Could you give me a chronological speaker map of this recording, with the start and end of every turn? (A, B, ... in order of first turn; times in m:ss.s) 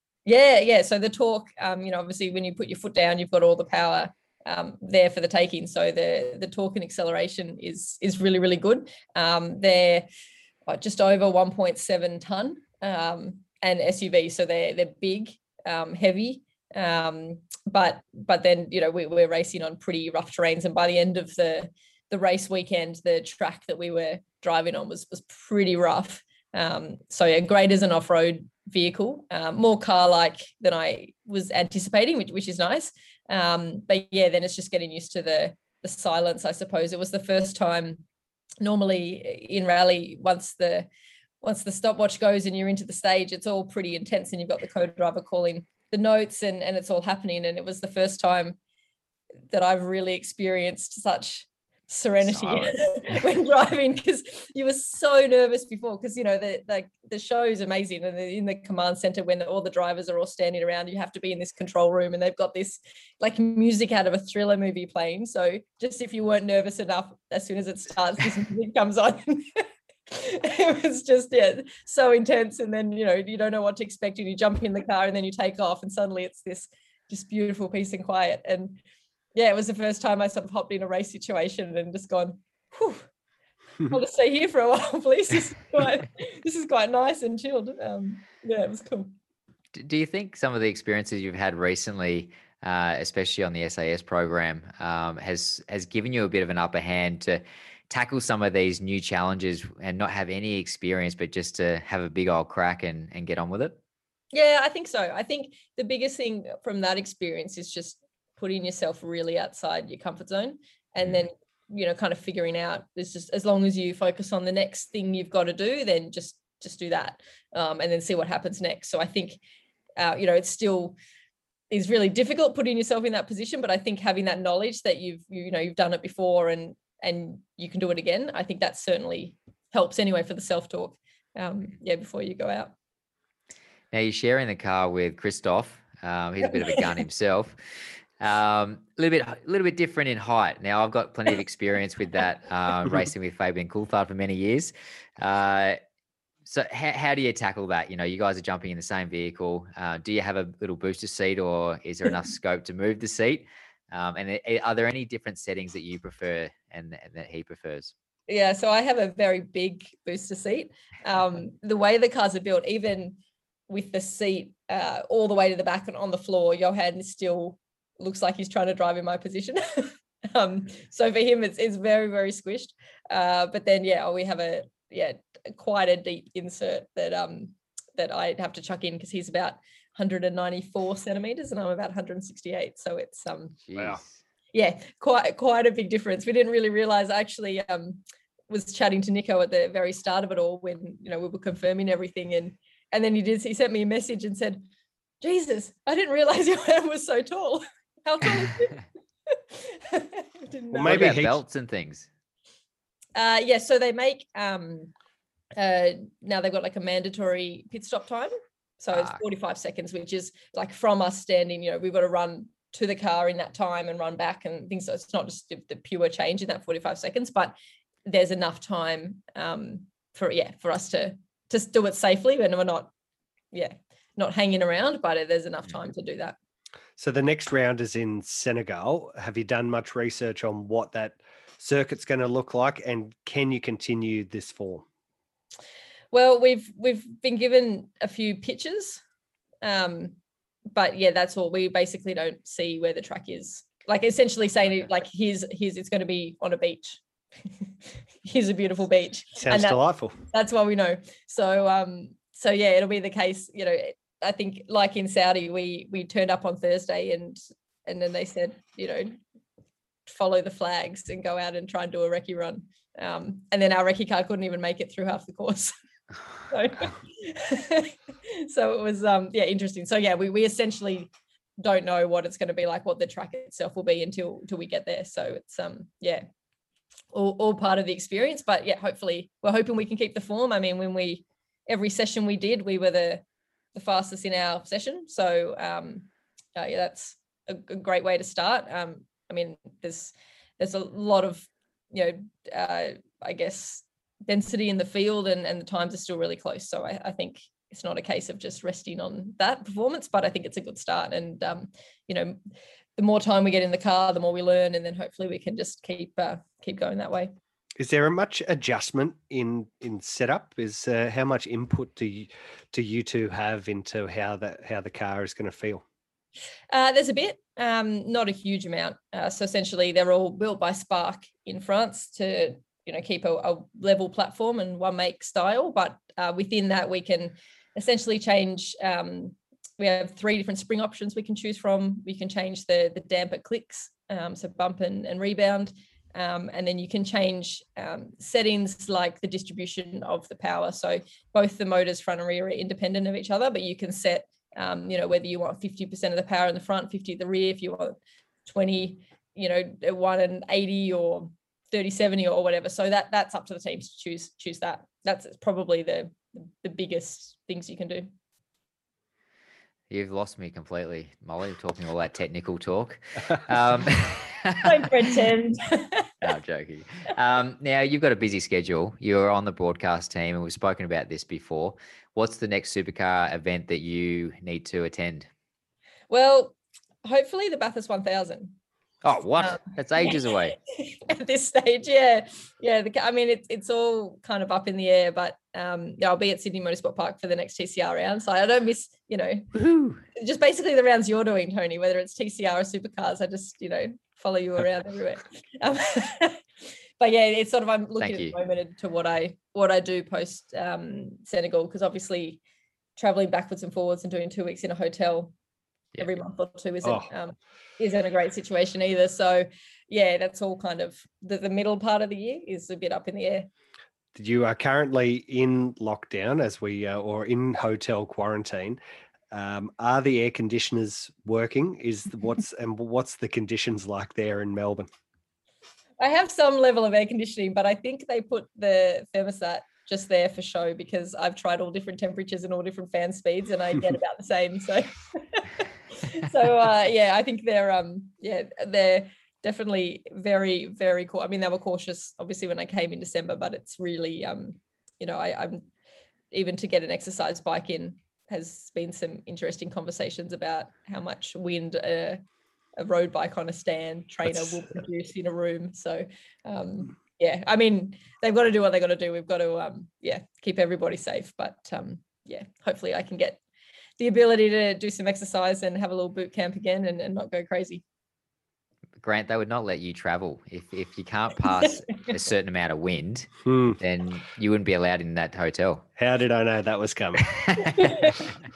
0:00.3-0:10.1 A
0:10.7-0:38.0 A
0:38.6-0:40.9 A
0:41.4-0:48.6 A
0:49.5-1:18.8 A
0:52.2-0:52.7 B
1:19.4-1:23.1 A
1:23.9-1:29.1 A
1:29.8-1:43.8 B
1:44.3-1:59.4 A
2:00.0-2:01.0 A
2:01.7-2:12.7 A
2:13.9-2:17.6 B
2:16.4-2:16.8 A
2:18.2-2:25.8 B
2:26.4-2:37.9 B
2:38.3-3:03.6 A
3:03.6-3:04.2 B
3:04.5-3:14.7 A
3:15.2-3:21.2 A
3:20.7-3:21.4 C
3:20.8-3:22.1 B
3:23.2-3:24.9 A
3:25.5-3:42.9 A
3:28.9-3:29.2 B
3:43.5-3:46.4 A
3:47.0-3:54.8 C
3:56.1-3:59.0 A
3:59.6-4:00.2 A
4:00.7-4:07.0 A
4:08.2-4:09.8 A
4:09.4-4:10.2 C
4:10.3-4:19.2 A
4:20.1-4:25.7 A
4:26.5-4:31.1 A
4:31.6-4:36.2 A
4:37.1-4:43.2 A
4:43.7-5:02.4 A
5:03.0-5:07.3 A
5:07.8-5:15.8 C
5:16.7-5:58.1 A
5:59.9-6:04.8 B
6:04.6-6:06.1 A
6:06.2-6:15.3 B
6:16.1-6:18.6 A
6:19.0-6:20.6 B
6:19.4-6:29.6 A
6:29.6-6:30.0 B
6:30.2-6:36.4 A
6:37.0-6:42.4 A
6:38.0-6:38.4 B
6:43.0-6:45.3 A
6:46.0-6:53.5 A
6:46.8-6:47.1 C
6:54.2-6:58.8 C
6:59.3-7:04.9 C
7:06.0-7:25.7 A
7:26.3-7:32.2 A
7:32.8-7:43.4 A
7:34.3-7:34.6 C
7:44.0-7:47.8 A
7:49.0-7:55.8 B
7:53.4-7:53.8 C
7:56.0-7:57.3 C
7:57.3-7:58.2 B
7:57.6-7:58.2 A